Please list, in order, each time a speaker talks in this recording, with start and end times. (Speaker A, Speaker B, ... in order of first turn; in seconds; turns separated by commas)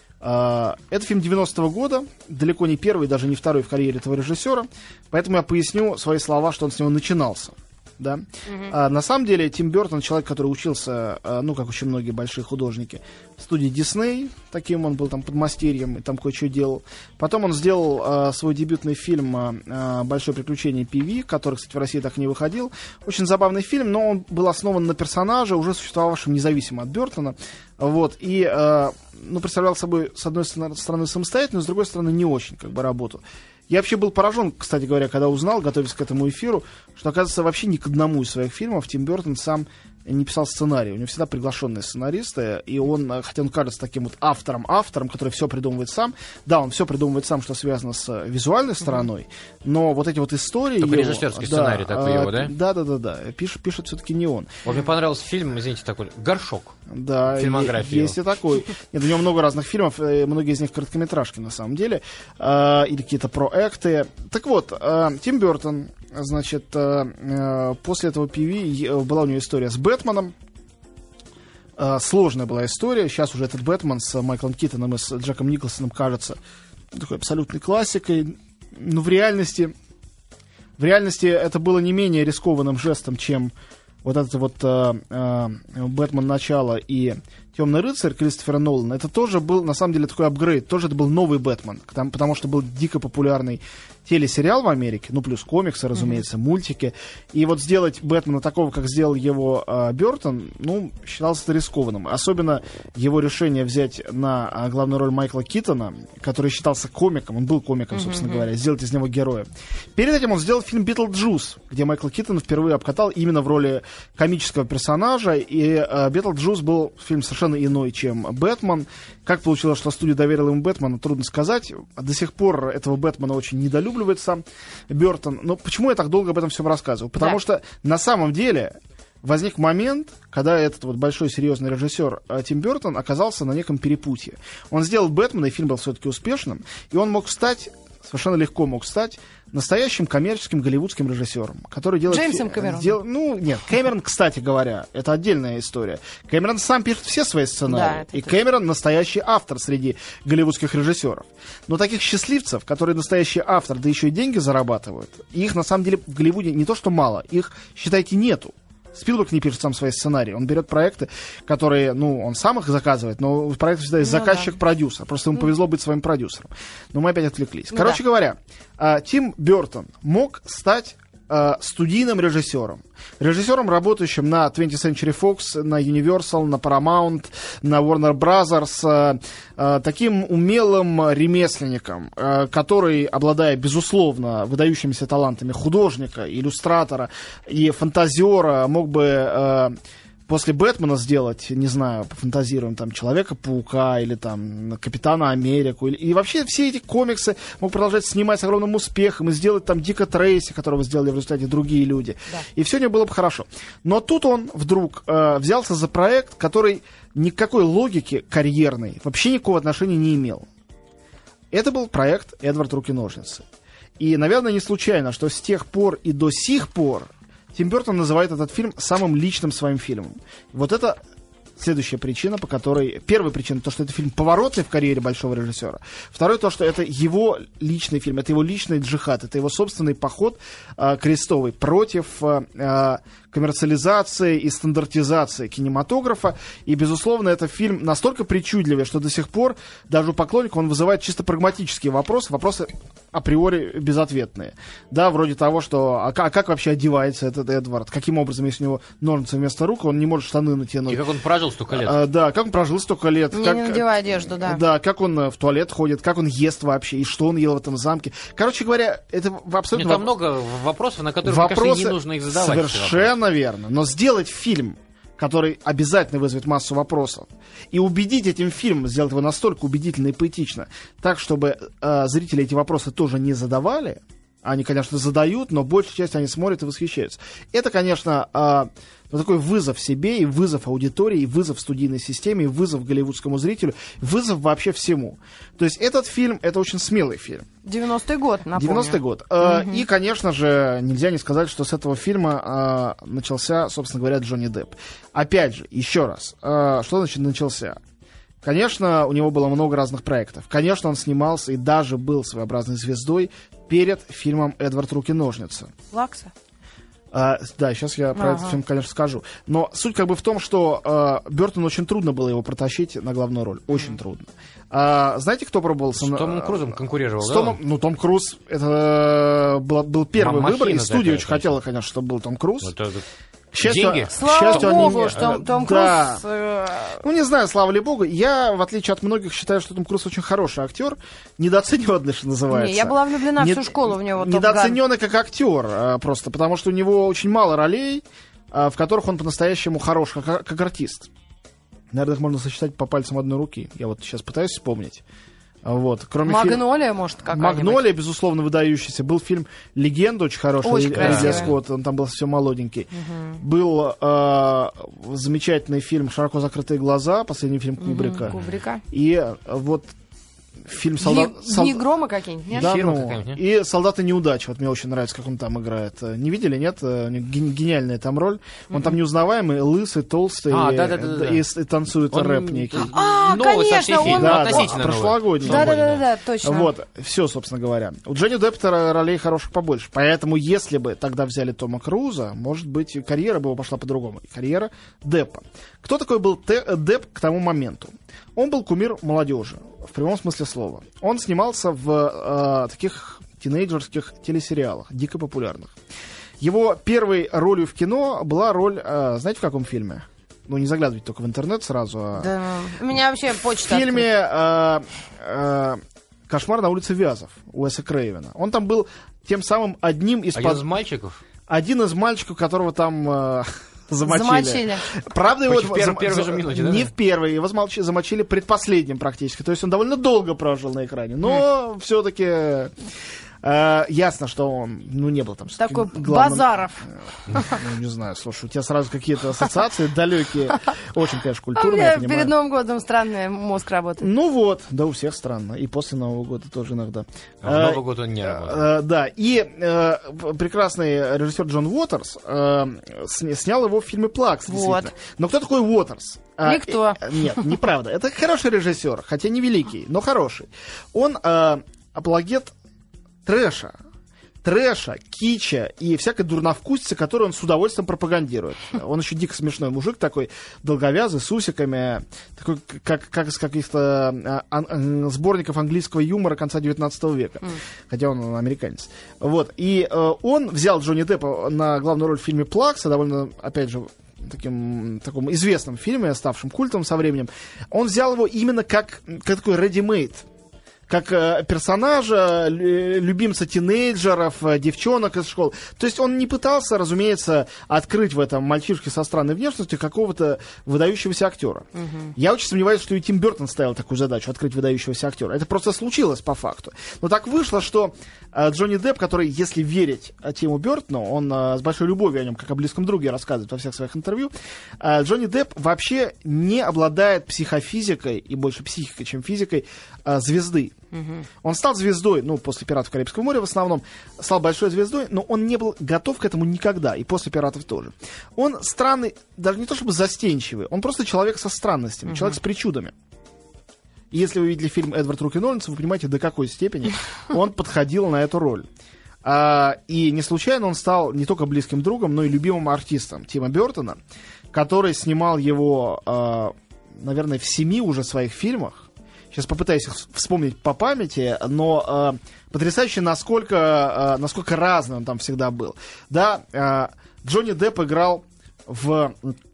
Speaker A: 0.2-54.7, Speaker B: 50.8-52.5, Speaker B: 54.6-56.7, Speaker A: 56.9-70.3, Speaker B: 57.3-58.2, Speaker A: 71.8-76.4, Speaker A: 76.9-79.7, Speaker A: 80.8-189.8, Speaker C: 107.9-108.5, Speaker C: 142.1-142.9, Speaker C: 147.7-148.3, Speaker C: 164.0-164.4, Speaker C: 167.7-168.0, Speaker A: 190.3-210.5, Speaker A: 211.5-213.4, Speaker A: 214.0-221.0, Speaker A: 221.6-251.0, Speaker B: 250.9-252.0, Speaker A: 251.7-260.1, Speaker C: 253.3-254.6, Speaker B: 259.7-263.1, Speaker A: 261.2-287.4, Speaker C: 287.6-289.8, Speaker A: 288.6-297.8, Speaker A: 298.4-305.7, Speaker C: 305.9-306.3, Speaker A: 307.1-322.7, Speaker C: 308.2-308.6, Speaker B: 316.0-317.6, Speaker B: 320.1-321.6, Speaker B: 322.6-323.1, Speaker A: 323.5-326.2, Speaker B: 323.6-325.4, Speaker C: 324.1-327.0, Speaker A: 327.0-341.1, Speaker C: 332.5-334.8, Speaker A: 341.9-345.0, Speaker A: 345.6-346.6, Speaker C: 346.2-347.9, Speaker A: 347.3-358.4, Speaker C: 350.6-351.6, Speaker B: 350.9-351.5, Speaker C: 353.0-353.4, Speaker C: 357.8-358.8, Speaker B: 358.2-358.6, Speaker A: 358.9-359.9, Speaker A: 360.6-361.8, Speaker C: 361.0-362.7, Speaker B: 362.5-363.4, Speaker A: 362.5-372.9, Speaker B: 370.5-371.4, Speaker B: 372.1-376.1, Speaker C: 372.9-374.6, Speaker A: 374.1-375.8, Speaker C: 375.4-376.7, Speaker A: 376.4-395.7, Speaker A: 396.4-402.3, Speaker C: 402.2-404.1, Speaker A: 403.4-410.7, Speaker B: 410.4-411.2, Speaker A: 411.5-422.7, Speaker C: 414.0-414.9, Speaker B: 415.5-416.9, Speaker A: 423.4-432.3, Speaker C: 425.6-427.6, Speaker C: 431.6-434.1, Speaker A: 434.0-452.5, Speaker B: 437.4-438.6, Speaker C: 444.5-444.9, Speaker C: 446.4-447.3, Speaker A: 453.2-453.8, Speaker A: 454.4-480.3, Speaker A: 480.9-510.8, Speaker C: 491.8-492.1, Speaker C: 510.9-511.2, Speaker A: 511.4-522.9, Speaker C: 522.1-522.4, Speaker A: 524.1-528.6, Speaker A: 529.2-534.0, Speaker A: 534.5-549.4